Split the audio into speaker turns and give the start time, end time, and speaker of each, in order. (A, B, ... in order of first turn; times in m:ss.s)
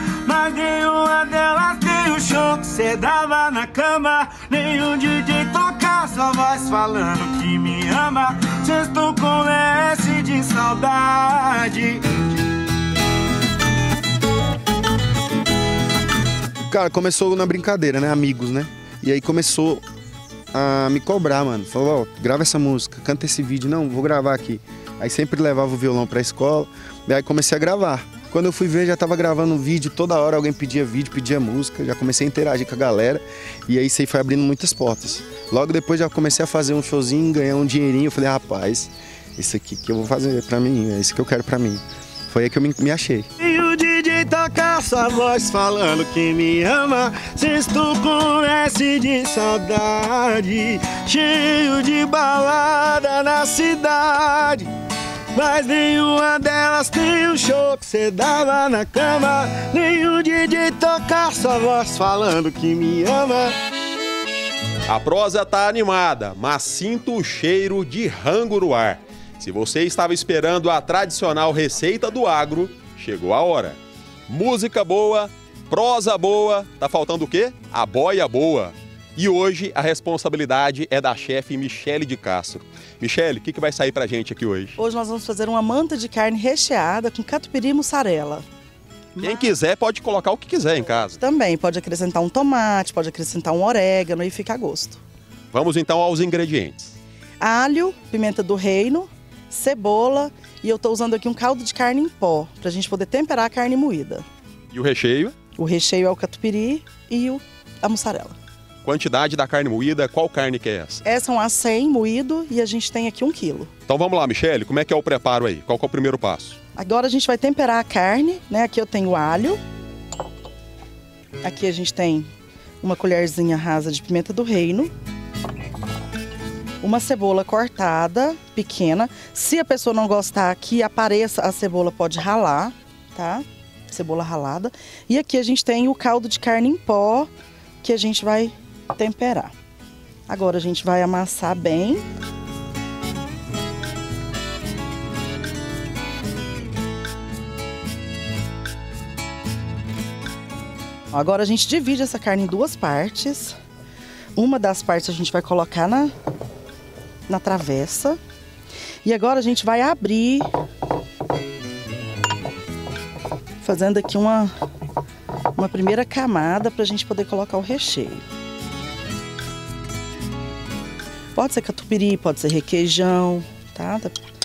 0:00.2-0:12.0 A
0:16.7-0:19.8 B
0:20.5-0:43.3 B
0:43.4-0:54.6 A
0:55.3-1:03.5 A
1:04.9-1:13.8 C
1:14.3-1:24.8 C
1:24.8-1:28.4 D
1:29.2-1:29.5 D
1:29.2-1:31.2 C
1:31.1-1:35.0 D
1:35.5-1:36.8 C
1:37.4-1:44.2 D
1:44.7-1:45.4 C
1:45.6-1:48.4 D
1:48.8-1:51.0 C
1:51.0-1:53.7 D
1:53.9-1:56.6 C
1:56.8-1:59.6 D
2:01.4-2:02.3 D
2:02.8-2:04.9 D
2:06.8-2:17.3 D
2:17.8-2:19.5 D
2:20.3-2:22.0 D
2:31.1-2:33.6 D
2:34.4-2:36.1 D
2:37.3-2:38.2 D
2:39.0-2:40.5 D
2:43.6-2:44.5 D
2:45.6-2:48.2 D
2:51.4-2:54.2 D